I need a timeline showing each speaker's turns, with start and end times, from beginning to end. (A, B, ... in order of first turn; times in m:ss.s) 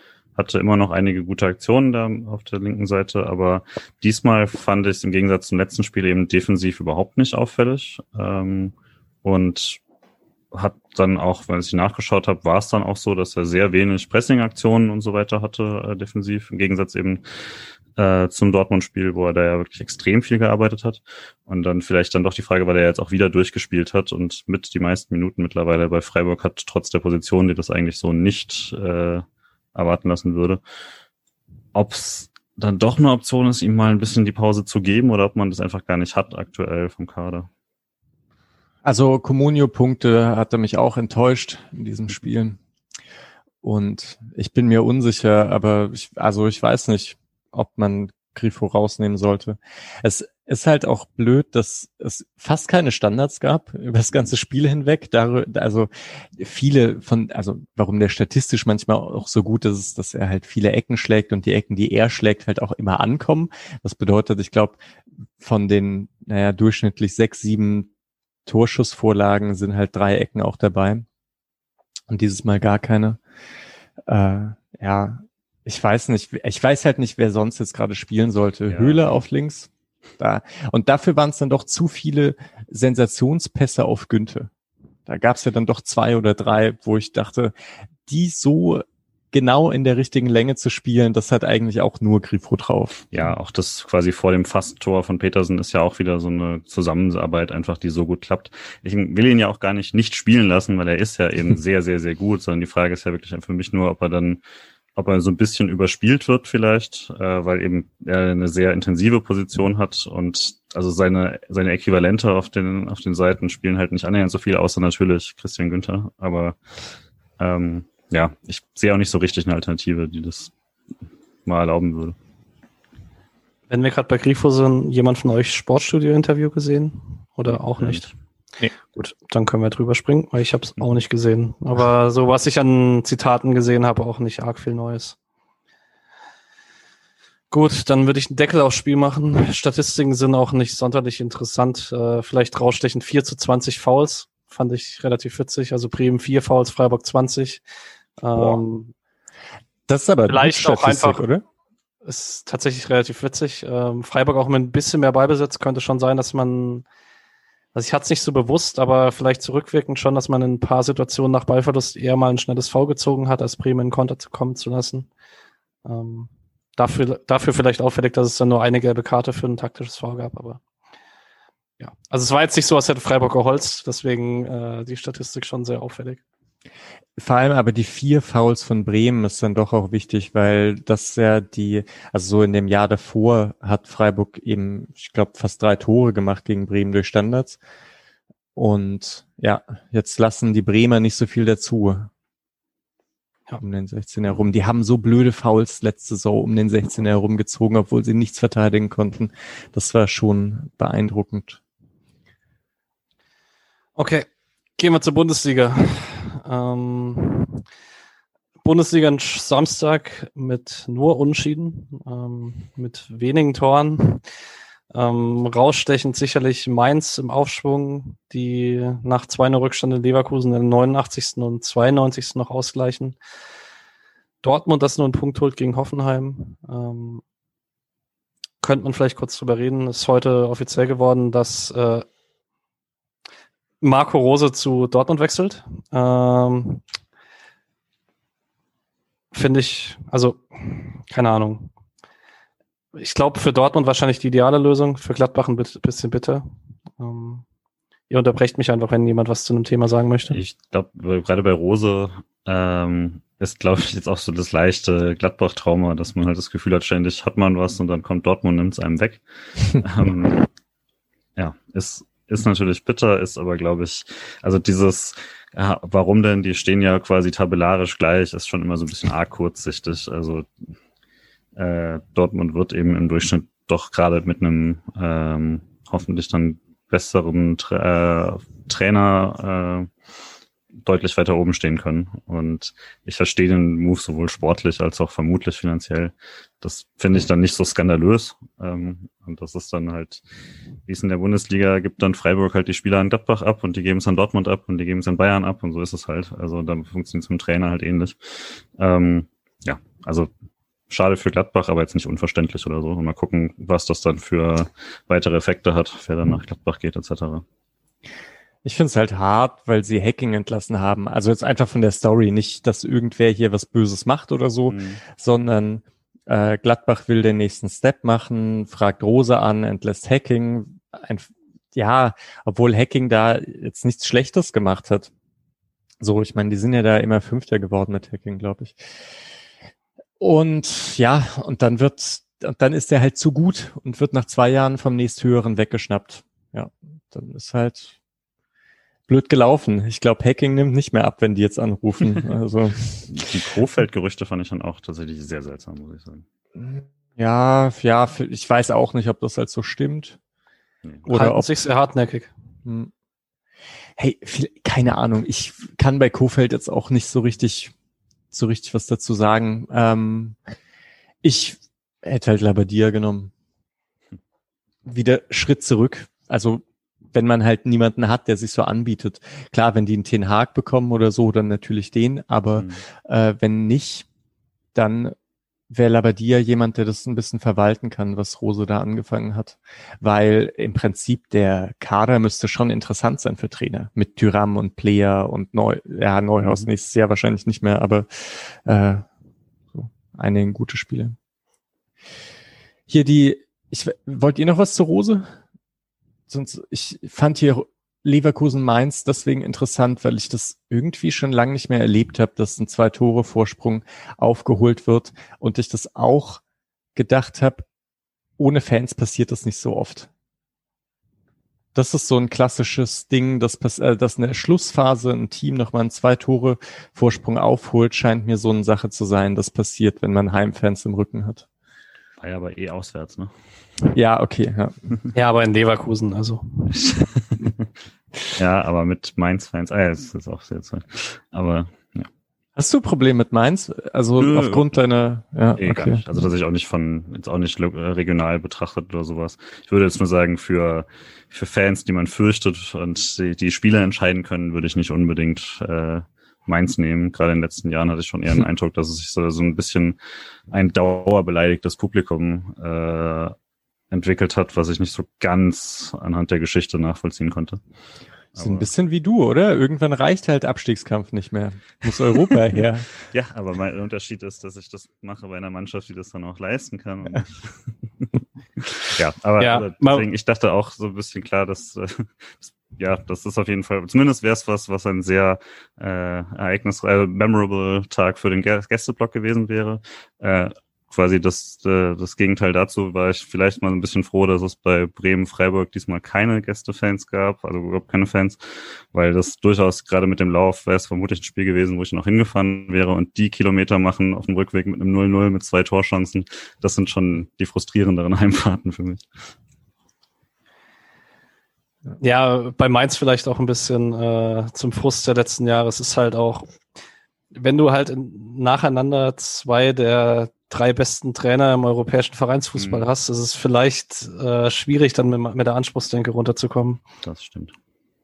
0:00.4-0:09.8 A
0:10.5-0:17.2 A
0:18.0-0:29.2 A
0:29.7-0:30.6 A
0:31.7-0:37.5 A
0:38.8-0:42.6 B
0:43.6-1:04.8 B
1:05.4-1:07.9 B
1:08.4-1:11.0 B
1:12.1-1:13.2 B
1:14.1-1:24.5 B
1:18.7-1:19.0 A
1:25.1-1:27.5 B
1:28.1-1:33.0 B
1:33.1-1:44.4 A
1:45.0-1:56.6 A
1:57.4-2:00.5 A
2:01.4-2:02.2 A
2:03.7-2:08.1 C
2:07.8-2:08.1 A
2:08.8-2:15.2 C
2:17.5-2:27.6 C
2:28.2-2:28.9 C
2:29.9-2:31.4 B
2:30.3-2:31.2 C
2:32.0-2:36.8 C
2:37.7-2:45.1 C
2:45.8-2:50.6 C
2:51.8-2:56.2 C
2:57.2-3:07.6 B
3:08.6-3:12.1 B
3:13.6-3:21.6 B
3:24.0-3:27.6 C
3:28.6-3:34.2 C
3:34.9-3:43.2 C
3:44.4-3:47.2 C
3:48.6-3:52.0 C
3:53.8-3:56.8 C
3:59.3-4:01.7 C
4:02.9-4:06.4 C
4:07.0-4:07.4 C
4:08.1-4:10.4 C
4:10.3-4:20.5 A
4:21.4-4:30.5 A
4:31.6-4:39.9 A
4:40.8-4:50.2 A
4:50.8-5:00.3 A
5:00.9-5:07.4 A
5:08.6-5:25.1 B
5:14.7-5:15.0 A
5:26.0-5:28.8 B
5:30.2-5:37.9 B
5:39.1-5:43.0 B
5:43.1-5:46.2 A
5:46.6-5:50.2 B
5:51.1-5:52.3 C
5:51.1-5:51.5 B
5:52.6-5:52.9 B
5:54.0-5:57.7 B
5:58.3-6:00.4 B
6:01.2-6:03.3 B
6:04.8-6:14.0 B
6:12.6-6:12.8 A
6:14.7-6:15.1 B
6:15.7-6:29.0 B
6:26.4-6:26.7 A
6:29.7-6:31.1 B
6:32.9-6:35.3 B
6:36.3-6:46.4 B
6:47.0-6:47.6 B
6:48.4-6:50.1 B
6:51.7-7:01.4 B
7:02.2-7:03.3 A
7:03.9-7:04.8 B
7:05.1-7:06.7 C
7:06.8-7:07.5 A
7:08.3-7:12.1 A
7:12.6-7:16.0 B
7:14.2-7:14.7 A
7:15.6-7:30.0 A
7:30.5-7:33.3 A
7:33.9-7:37.6 A
7:38.3-7:38.7 A
7:38.4-7:42.9 B
7:43.1-7:48.1 A
7:48.6-8:19.0 A
7:49.4-7:50.0 C
8:22.0-8:26.5 C
8:27.3-8:36.8 C
8:32.6-8:32.9 A
8:37.0-8:37.5 A